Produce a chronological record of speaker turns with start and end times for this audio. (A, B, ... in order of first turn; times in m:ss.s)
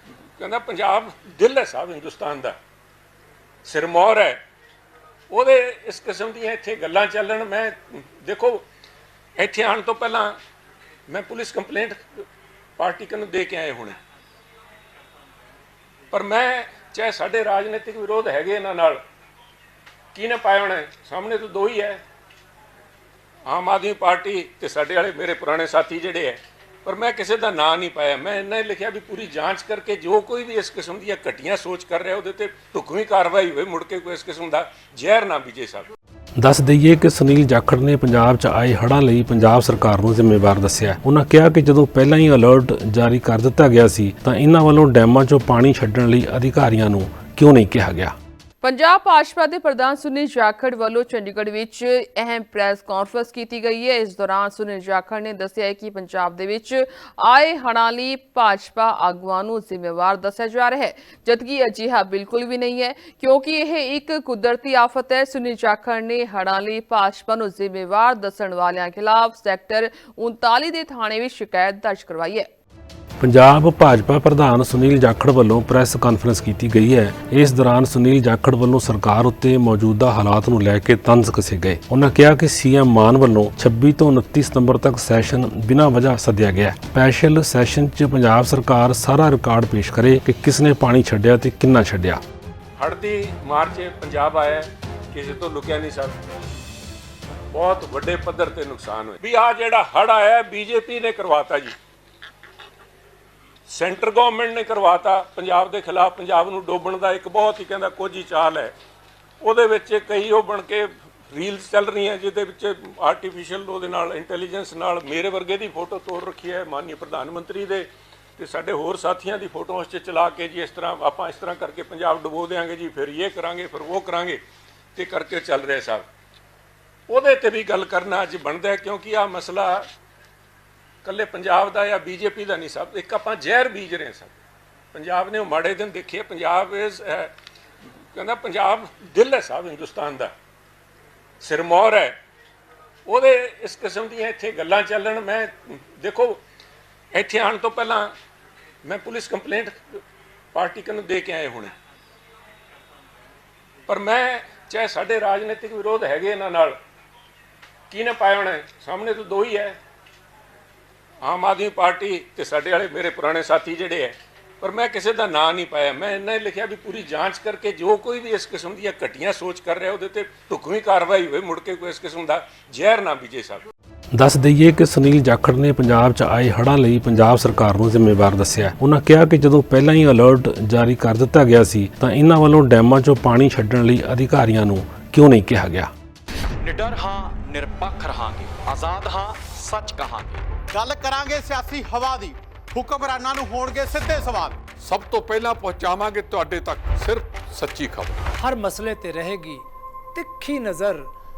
0:00.4-0:02.6 A
0:03.6-0:04.4 A
0:05.3-0:08.6 A
0:09.4-0:10.4 A
0:11.1-0:12.0 A
0:12.8-0:14.0 A
0:16.1-0:19.0 A
0:20.2-0:22.0 A
0:23.5-0:35.9 A
0:36.4-0:48.2 B
0:48.6-1:12.5 C
1:13.2-1:32.2 B
1:32.8-1:36.2 A
1:37.5-1:41.8 A
1:43.7-1:48.7 A
1:49.4-2:04.4 A
2:05.0-2:06.0 A
2:07.1-2:09.9 A
2:11.0-2:14.4 A
2:14.9-2:17.3 A
2:18.1-2:20.3 A
2:21.4-2:22.2 A
2:23.1-2:26.4 A
2:27.1-2:28.1 A
2:28.8-2:29.8 A
2:30.5-2:31.7 A
2:33.9-2:36.8 A
2:37.9-2:39.8 A
2:41.2-2:53.7 A
2:54.1-3:05.9 B
3:06.6-3:10.5 D
3:10.7-3:14.6 E
3:14.7-3:18.2 F
3:18.4-3:21.1 G